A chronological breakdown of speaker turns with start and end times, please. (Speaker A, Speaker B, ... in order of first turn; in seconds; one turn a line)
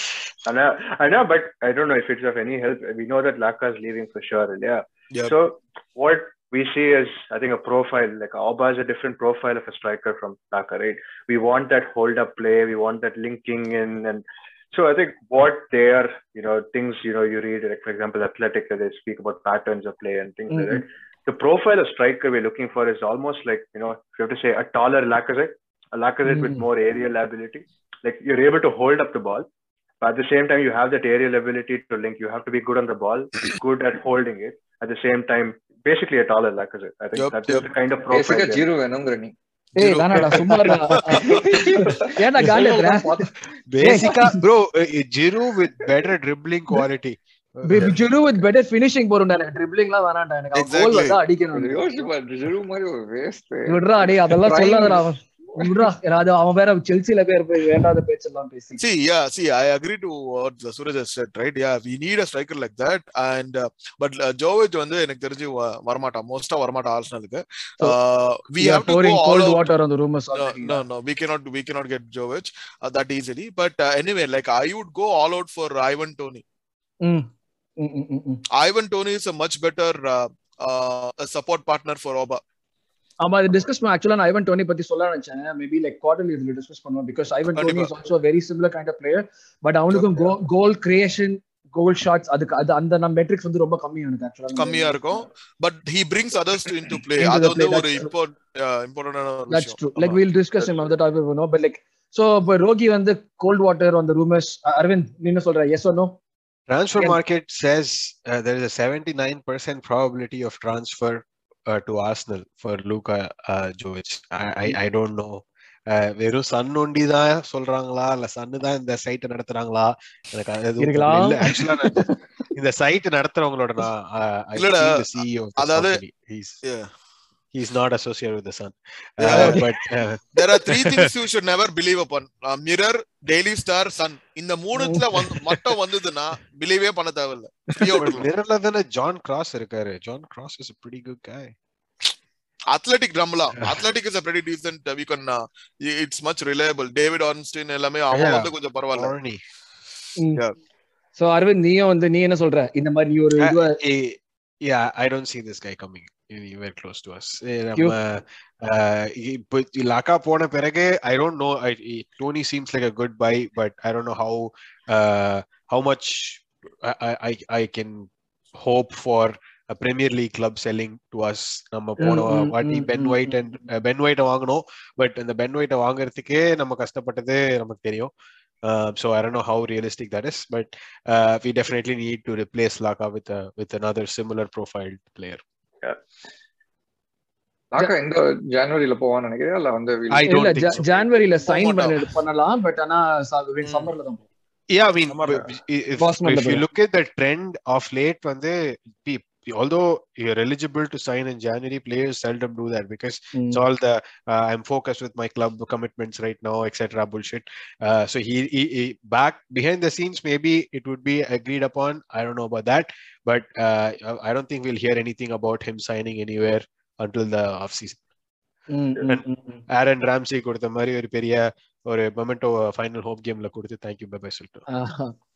Speaker A: 0.4-29.5
Speaker B: 20.5-20.8
Speaker B: 26.2-26.6
Speaker A: 30.0-38.6
Speaker C: 37.1-37.7
Speaker D: 38.1-39.3
Speaker B: 39.8-43.2
Speaker C: 39.8-41.9
Speaker D: 41.1-43.3
Speaker E: 43.7-48.1
Speaker B: 43.8-44.4
Speaker D: 43.9-44.1
Speaker B: 47.6-52.1
Speaker C: 50.5-51.2
Speaker D: 51.5-55.0
Speaker B: 53.6-58.8
Speaker C: 58.8-69.7
Speaker B: 68.6-70.8
Speaker C: 70.3-76.4
Speaker B: 77.0-78.4
Speaker C: 78.5-82.4
Speaker B: 83.2-95.2
Speaker C: 87.5-87.9
Speaker C: 89.9-90.3
Speaker C: 94.5-100.2
Speaker B: 97.2-98.1
Speaker B: 99.5-106.2
Speaker E: 106.7-126.6
Speaker B: 120.8-122.2
Speaker C: 124.5-126.0
Speaker C: 126.6-126.9
Speaker E: 127.5-131.1
Speaker C: 129.2-129.6
Speaker B: 129.3-129.6
Speaker C: 130.3-138.3
Speaker B: 134.8-135.6
Speaker E: 138.0-141.5
Speaker C: 142.7-149.1
Speaker E: 148.1-149.4
Speaker B: 150.2-150.4
Speaker B: 151.2-153.8
Speaker E: 153.4-178.1
Speaker B: 172.0-173.6
Speaker E: 178.6-185.4
Speaker D: 187.7-190.6
Speaker E: 190.1-190.8
Speaker B: 190.2-194.2
Speaker C: 191.4-192.1
Speaker C: 193.6-193.9
Speaker E: 194.7-218.0
Speaker B: 196.0-196.7
Speaker B: 203.3-203.6
Speaker B: 218.7-219.6
Speaker E: 219.1-224.6
Speaker B: 224.7-225.1